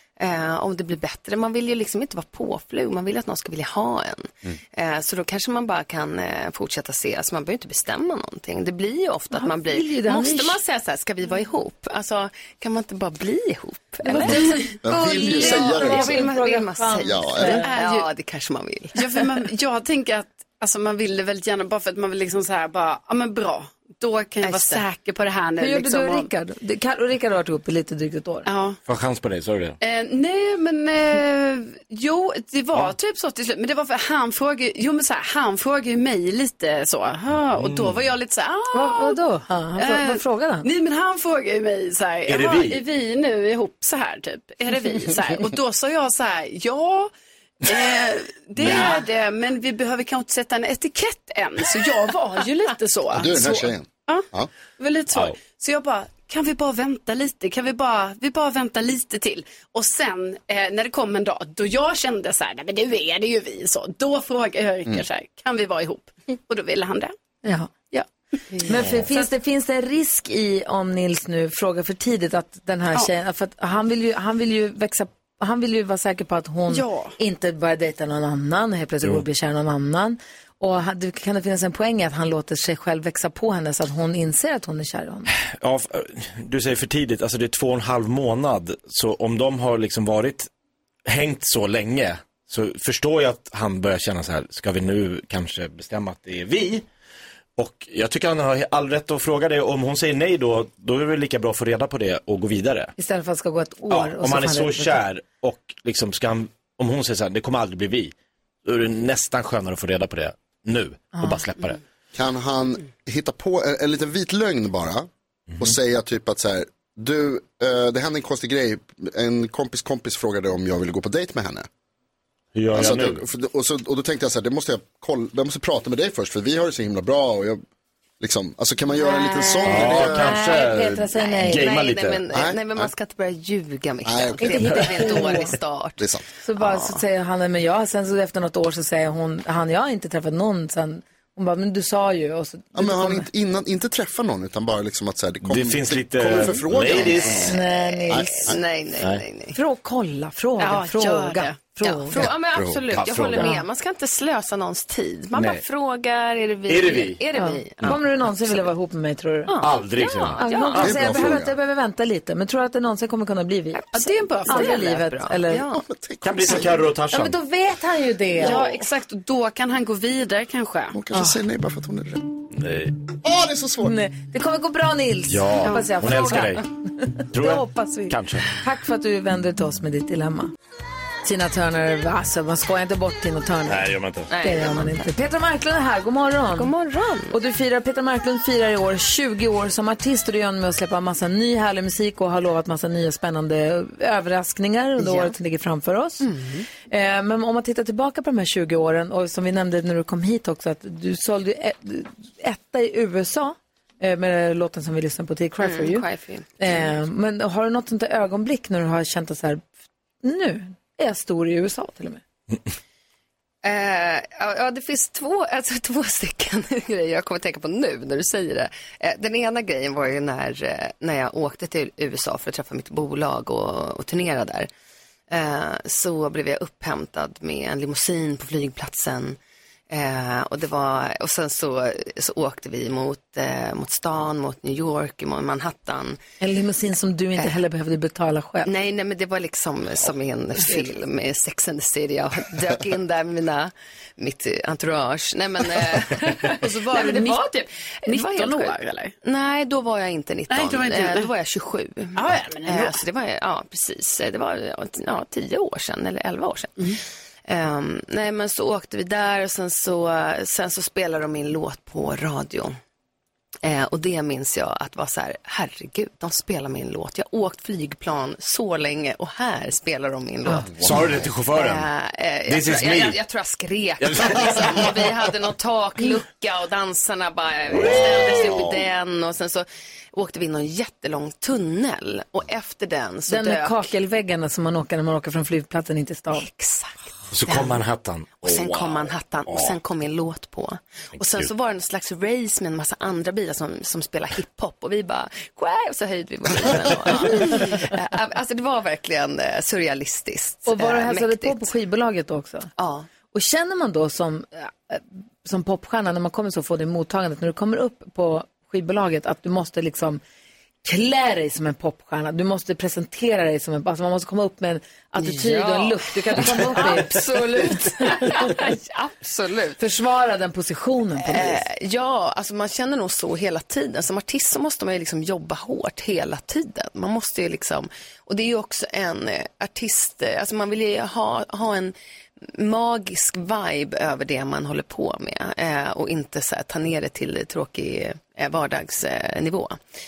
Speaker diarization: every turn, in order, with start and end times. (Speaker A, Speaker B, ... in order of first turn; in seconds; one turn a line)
Speaker A: 0.2-19.3
Speaker B: 9.3-10.6
Speaker B: 14.1-17.7
Speaker C: 14.8-16.3
Speaker C: 17.0-17.7
Speaker D: 17.6-18.1
Speaker D: 18.9-26.3
Speaker A: 24.4-24.8
Speaker B: 25.6-28.4
Speaker D: 28.4-28.8
Speaker E: 28.9-29.8
Speaker D: 29.8-39.2
Speaker E: 37.6-38.0
Speaker B: 38.7-40.7
Speaker D: 39.8-47.1
Speaker E: 42.3-42.8
Speaker D: 47.6-54.2
Speaker E: 48.6-49.0
Speaker C: 53.1-54.5
Speaker D: 54.8-67.1
Speaker B: 67.4-67.7
Speaker D: 67.9-69.3
Speaker B: 68.6-85.3
Speaker D: 76.7-77.1
Speaker E: 85.4-90.5
Speaker E: 91.1-96.8
Speaker E: 97.6-102.9
Speaker B: 103.0-105.0
Speaker E: 103.9-108.1
Speaker E: 108.6-111.8
Speaker C: 112.1-121.7
Speaker E: 115.5-115.7
Speaker E: 122.5-123.2
Speaker C: 122.7-127.6
Speaker C: 128.2-130.4
Speaker A: 129.0-129.9
Speaker E: 129.7-132.2
Speaker B: 129.7-131.7
Speaker A: 131.1-137.0
Speaker C: 132.3-132.9
Speaker C: 134.0-135.3
Speaker B: 134.4-135.6
Speaker C: 136.0-136.2
Speaker B: 136.4-143.3
Speaker C: 142.7-148.6
Speaker E: 145.4-147.5
Speaker B: 147.4-148.5
Speaker A: 147.6-149.6
Speaker B: 149.5-152.2
Speaker D: 150.6-151.6
Speaker A: 151.8-158.5
Speaker E: 152.2-153.5
Speaker B: 153.4-153.6
Speaker E: 155.3-155.6
Speaker E: 156.7-157.2
Speaker B: 157.3-159.6
Speaker A: 159.5-161.0
Speaker E: 159.6-161.3
Speaker B: 160.4-163.9
Speaker C: 160.7-161.5
Speaker A: 163.7-165.8
Speaker D: 163.9-164.9
Speaker B: 164.5-165.7
Speaker C: 165.7-166.8
Speaker E: 166.2-167.4
Speaker B: 167.1-168.7
Speaker D: 168.4-171.0
Speaker A: 168.4-168.7
Speaker C: 170.9-172.4
Speaker E: 172.5-172.9
Speaker C: 173.2-173.9
Speaker B: 173.8-180.5
Speaker E: 175.3-176.6
Speaker E: 177.3-178.5
Speaker B: 181.2-186.7
Speaker E: 183.7-184.3
Speaker A: 184.3-185.1
Speaker A: 186.5-187.3
Speaker B: 187.3-196.3
Speaker A: 195.0-195.3
Speaker A: 196.2-196.7
Speaker B: 196.8-206.1
Speaker A: 205.6-207.0
Speaker B: 206.6-209.6
Speaker B: 210.2-212.2
Speaker A: 213.6-224.7
Speaker A: 225.3-229.4
Speaker A: 229.9-236.2
Speaker B: 236.4-238.7
Speaker A: 238.6-262.8
Speaker D: 246.6-249.1
Speaker D: 250.5-251.3
Speaker D: 252.1-253.0
Speaker A: 263.6-283.9
Speaker C: 270.6-271.3
Speaker E: 270.8-271.9
Speaker E: 272.5-273.2
Speaker E: 274.0-275.0
Speaker E: 277.7-278.7
Speaker B: 283.3-286.5
Speaker A: 286.3-287.8
Speaker E: 287.3-289.8
Speaker A: 288.4-301.7
Speaker E: 291.2-291.5
Speaker B: 300.7-302.7
Speaker A: 302.8-303.1
Speaker B: 303.3-310.2
Speaker B: 310.8-318.4
Speaker A: 315.2-319.8
Speaker B: 319.8-321.6
Speaker A: 321.2-331.9
Speaker A: 332.5-339.8